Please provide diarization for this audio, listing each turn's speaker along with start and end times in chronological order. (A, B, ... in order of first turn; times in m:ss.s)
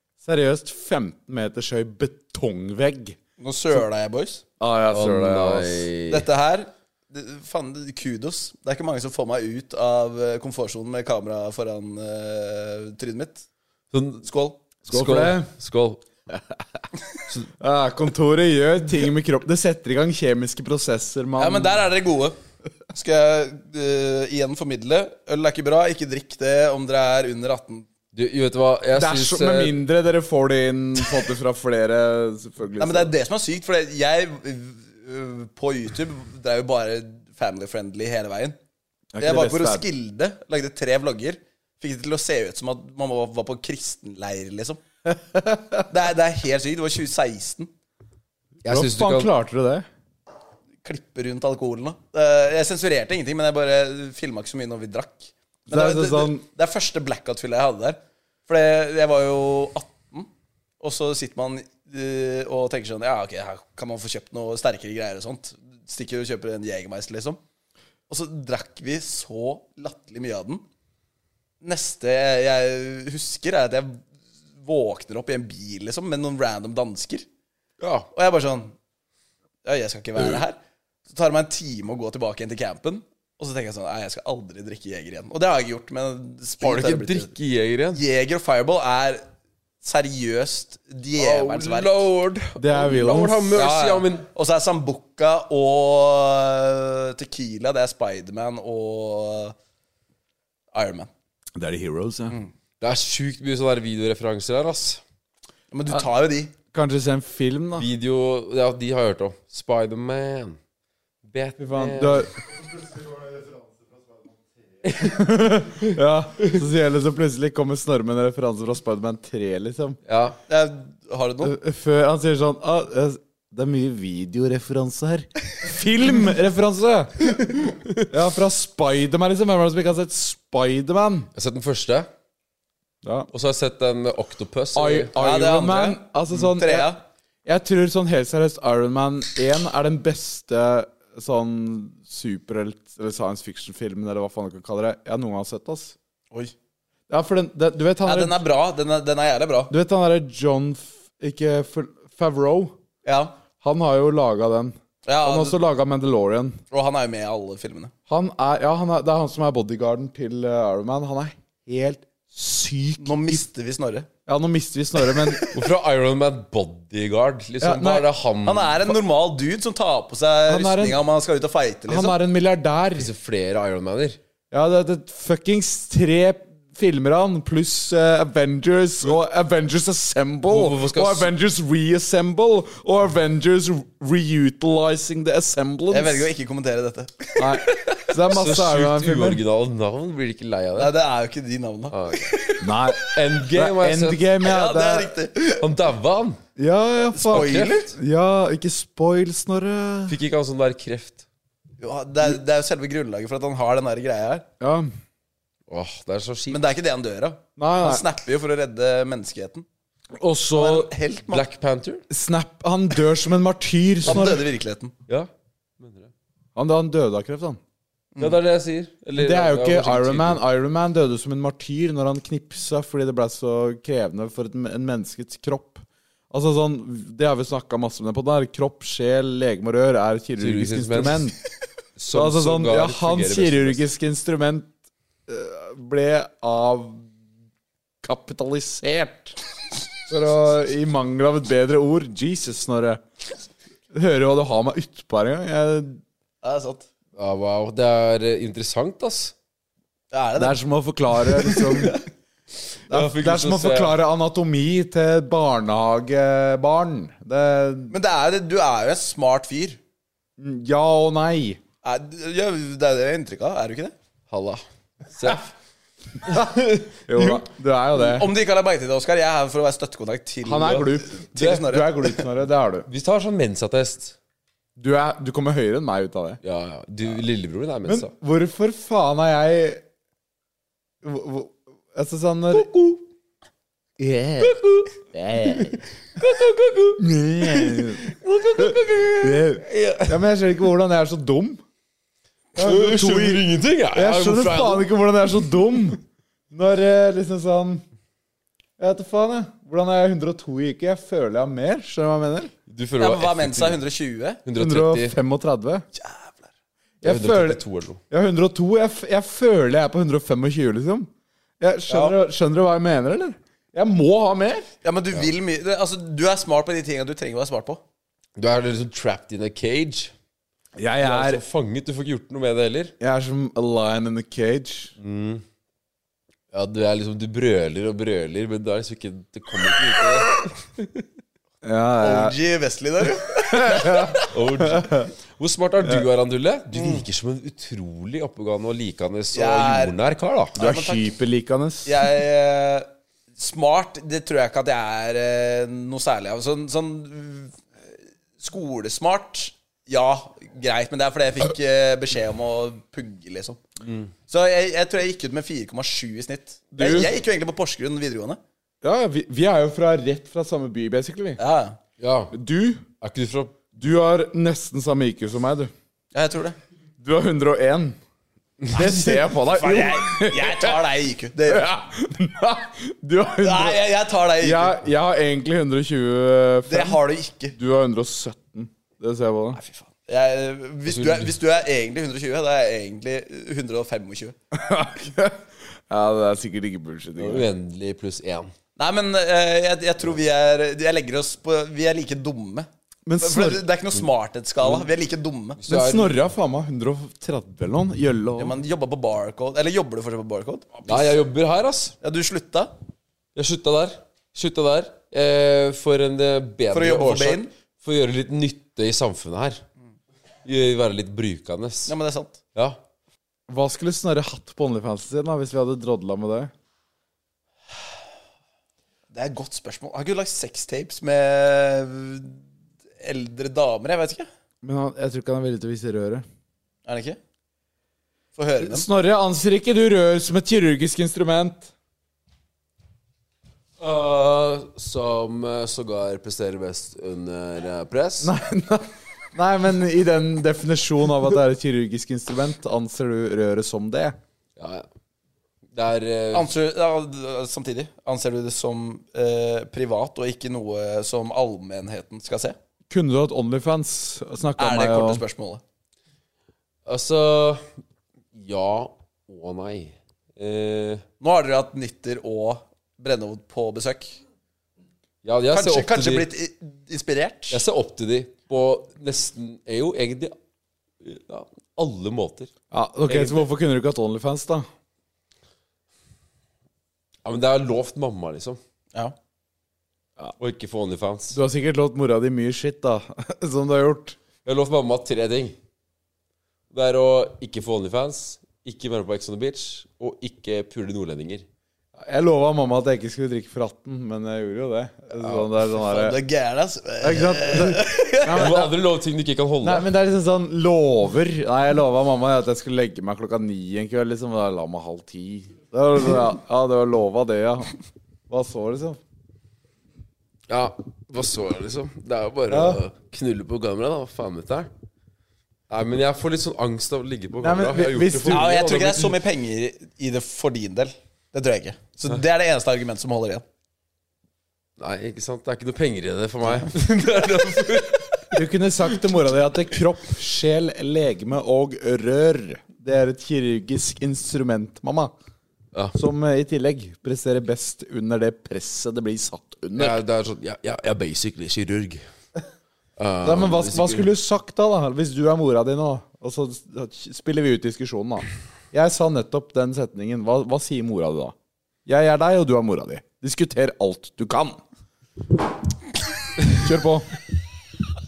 0:00.2-0:03.2 A
0:03.4-0:04.4 B
0:04.6-0:05.9 A
0:04.9-0:06.3 C
0:06.1-0:13.4 B
0:13.9-0:14.3 C
0:14.2-0:14.6 B
0:14.9-0:16.0 C
0:14.9-0:15.5 A
0:17.6-0:21.8 A
0:21.4-0:22.4 B
0:22.9-0:27.9 B
0:28.1-0:29.7 C
0:28.9-0:33.1 A
0:32.8-0:38.6 B
0:39.2-0:39.8 A
0:39.2-0:44.8 B
0:45.1-0:45.8 A
0:45.9-0:47.7 B
0:48.6-0:49.3 C
0:48.7-0:49.8 A
0:50.8-1:00.3 B
0:55.7-0:56.4 A
1:00.8-1:07.4 B
1:08.1-1:10.6 B
1:11.6-1:14.0 B
1:14.6-1:17.3 B
1:17.8-1:18.1 C
1:18.1-1:18.7 B
1:19.6-1:27.3 B
1:26.6-1:28.0 C
1:27.9-1:29.2 B
1:29.8-1:32.1 B
1:31.2-1:34.3 C
1:32.6-1:33.5 A
1:33.5-1:39.6 B
1:40.7-1:41.1 B
1:41.6-1:42.4 A
1:42.8-1:45.0 C
1:45.7-1:46.5 B
1:46.7-1:47.9 A
1:47.8-1:50.6 C
1:51.2-1:52.3 C
1:51.6-1:52.3 A
1:54.8-1:55.4 C
1:55.0-2:00.0 A
2:00.1-2:00.4 C
2:00.5-2:01.5 B
2:01.4-2:07.4 A
2:08.0-2:11.3 A
2:11.4-2:12.1 C
2:13.0-2:13.3 A
2:13.3-2:15.1 C
2:14.8-2:26.0 A
2:15.2-2:17.0 B
2:27.1-2:28.4 A
2:28.0-2:29.7 B
2:29.7-2:32.8 A
2:33.0-2:33.4 B
2:33.6-2:36.6 A
2:35.1-2:35.6 B
2:36.7-2:37.9 B
2:38.1-2:43.4 A
2:43.0-2:44.1 B
2:44.3-2:45.5 A
2:45.2-2:45.5 B
2:45.5-2:48.9 C
2:47.6-2:48.1 A
2:48.4-2:52.2 B
2:50.5-2:51.0 A
2:51.9-2:53.1 A
2:53.0-2:54.2 C
2:54.5-3:06.3 A
3:00.5-3:01.3 C
3:05.9-3:07.7 B
3:07.4-3:09.4 A
3:08.2-3:10.9 C
3:10.8-3:12.7 B
3:11.9-3:12.4 C
3:12.6-3:15.1 A
3:13.0-3:14.3 C
3:14.4-3:15.7 B
3:15.6-3:16.4 C
3:16.6-3:20.2 A
3:17.2-3:17.9 B
3:17.3-3:17.9 C
3:20.1-3:21.2 C
3:21.8-3:24.4 B
3:24.6-3:24.9 A
3:25.7-3:26.6 C
3:26.5-3:29.6 B
3:27.6-3:28.0 A
3:30.2-3:30.9 A
3:30.6-3:31.4 B
3:31.3-3:32.0 C
3:32.1-3:34.5 A
3:34.0-3:34.9 B
3:35.1-3:36.1 C
3:36.6-3:37.6 A
3:38.2-3:40.4 C
3:39.2-3:51.4 A
3:50.4-3:51.3 C
3:52.0-3:53.9 C
3:52.1-3:54.7 A
3:55.3-3:57.1 A
3:58.0-3:59.4 A
4:00.1-4:03.0 A
4:03.9-4:06.0 A
4:06.4-4:06.9 B
4:07.2-4:09.3 C
4:10.1-4:10.6 B
4:10.4-4:12.0 A
4:11.4-4:12.0 B
4:12.9-4:14.0 C
4:12.9-4:17.9 A
4:17.9-4:19.8 B
4:20.4-4:21.6 A
4:21.8-4:24.0 B
4:24.3-4:25.5 C
4:26.2-4:27.4 C
4:27.1-4:28.3 A
4:28.0-4:32.2 B
4:30.4-4:32.9 A
4:32.9-4:34.2 C
4:34.8-4:36.4 A
4:36.4-4:38.1 C
4:37.9-4:39.8 A
4:41.0-4:42.7 A
4:44.0-4:44.6 A
4:44.4-4:50.2 C
4:45.1-4:45.8 A
4:47.0-4:48.1 A
4:48.6-4:51.6 A
4:52.6-4:57.8 A
4:52.6-4:54.9 C
4:58.8-5:02.5 A
5:02.7-5:03.8 C
5:03.0-5:04.4 B
5:04.4-5:05.2 C
5:04.6-5:05.8 A
5:06.0-5:06.5 B
5:07.0-5:11.1 A
5:07.0-5:08.0 C
5:11.6-5:14.7 A
5:11.9-5:12.2 B
5:14.8-5:17.8 B
5:18.4-5:20.1 C
5:20.8-5:21.4 A
5:21.0-5:22.9 C
5:23.0-5:24.9 A
5:25.0-5:25.4 C
5:26.5-5:30.9 C
5:31.6-5:32.4 A
5:32.0-5:34.2 B
5:33.5-5:35.1 A
5:34.3-5:40.6 C
5:36.8-5:37.0 B
5:39.3-5:40.0 B
5:40.6-5:41.1 B
5:40.6-5:42.0 A
5:41.9-5:47.6 B
5:48.4-5:53.6 B
5:53.8-5:54.1 C
5:54.3-5:58.4 B
5:56.7-5:57.1 A
5:58.8-6:01.4 A
6:01.4-6:01.8 B
6:02.0-6:02.3 C
6:02.3-6:02.8 A
6:03.0-6:03.6 C
6:03.8-6:05.7 A
6:06.1-6:06.6 B
6:07.0-6:08.0 A
6:08.7-6:10.8 A
6:09.1-6:11.7 B
6:11.5-6:13.8 A
6:13.4-6:14.7 B
6:14.4-6:17.0 A
6:16.7-6:17.6 B
6:17.5-6:19.6 A
6:19.6-6:24.4 B
6:20.9-6:21.3 C
6:24.5-6:27.5 A
6:27.2-6:28.5 C
6:28.8-6:32.7 B
6:33.1-6:33.6 A
6:33.2-6:35.6 B
6:34.6-6:34.9 C
6:35.6-6:36.2 C
6:35.7-6:38.6 A
6:38.4-6:41.2 B
6:40.9-6:42.0 C
6:42.0-6:42.7 B
6:43.4-6:49.6 C
6:46.7-6:47.5 B
6:50.4-6:52.0 C
6:51.9-6:52.4 B
6:53.5-6:56.5 A
6:59.1-7:02.4 B
7:03.0-7:04.3 B
7:04.6-7:06.2 A
7:06.9-7:07.2 B
7:08.4-7:08.8 B
7:08.6-7:11.7 A
7:13.8-7:18.3 C
7:18.2-7:24.2 A
7:24.6-7:24.9 C
7:25.7-7:26.5 C
7:26.3-7:32.6 B
7:32.9-7:35.2 A
7:34.6-7:35.6 B
7:36.9-7:37.7 C
7:38.3-7:41.0 C
7:41.2-7:44.2 B
7:45.2-7:46.3 C
7:45.5-7:47.6 B
7:47.5-7:50.4 C
7:51.0-7:52.5 C
7:52.7-7:54.7 A
7:53.1-7:53.5 C
7:57.2-7:58.6 C
8:00.4-8:01.4 C
8:01.3-8:04.2 A
8:04.4-8:05.6 C
8:06.7-8:11.4 C
8:12.0-8:16.2 A
8:15.2-8:15.5 C
8:15.7-8:18.6 B
8:17.0-8:18.7 A
8:18.3-8:19.9 C
8:19.6-8:27.7 A
8:28.3-8:29.0 A
8:30.5-8:34.7 C
8:32.5-8:32.8 A
8:35.7-8:38.9 C
8:37.4-8:39.1 A
8:38.3-8:43.4 B
8:44.8-8:48.4 C
8:48.3-8:55.1 A
8:55.9-9:00.0 A
8:59.8-9:02.0 C
9:03.0-9:04.1 C
9:03.2-9:11.3 A
9:11.9-9:14.6 A
9:16.5-9:17.1 A